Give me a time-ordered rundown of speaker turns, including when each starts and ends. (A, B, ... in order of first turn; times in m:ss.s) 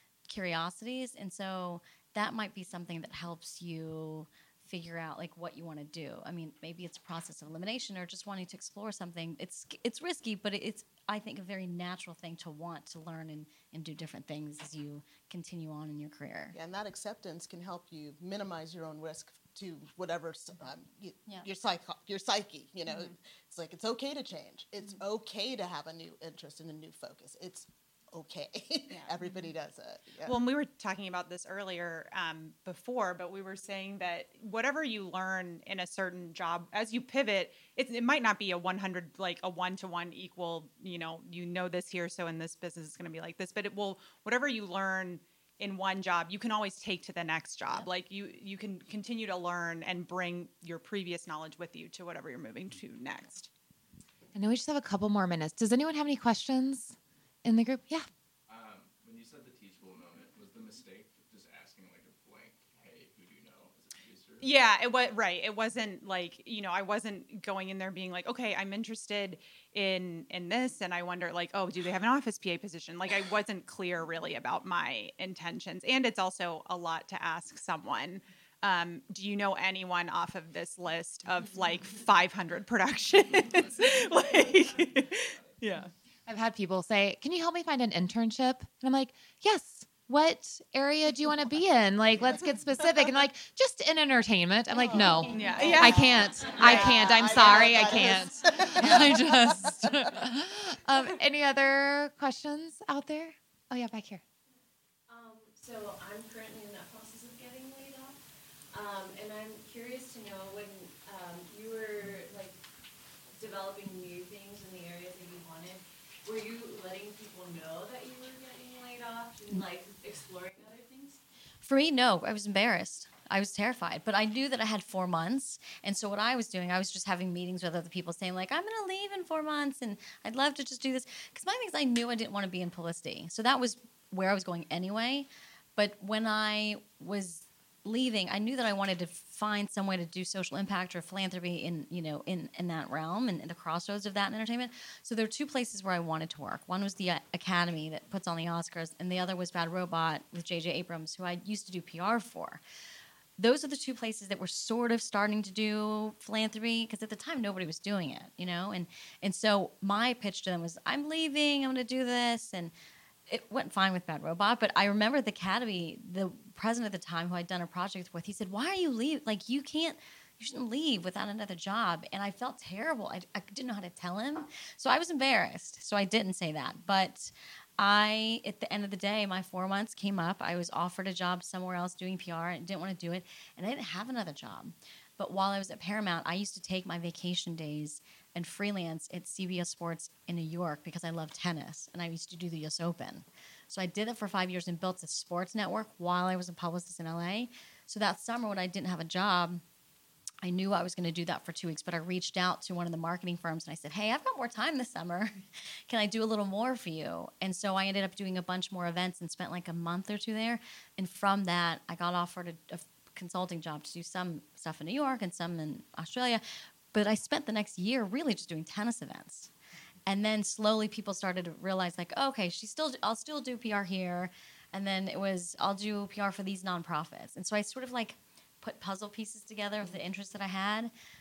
0:00.3-0:16.6 A
0:16.5-0:30.4 B
0:28.9-0:29.3 C
0:30.2-0:53.5 C
0:54.4-0:58.1 D
0:58.5-1:04.7 E
1:04.4-1:25.9 C
1:23.5-1:24.5 E
1:26.3-1:44.2 D
1:34.9-1:39.9 B
1:34.9-1:35.8 F
1:35.3-1:37.0 C
1:38.8-1:39.7 F
1:45.1-1:48.2 F
1:48.7-1:52.6 F
1:53.4-2:01.2 F
2:01.6-2:32.6 A
2:33.4-2:42.7 A
2:43.3-3:19.6 A
3:20.4-3:25.3 A
3:25.9-3:36.4 A
3:36.9-3:39.5 A
3:40.1-3:50.9 A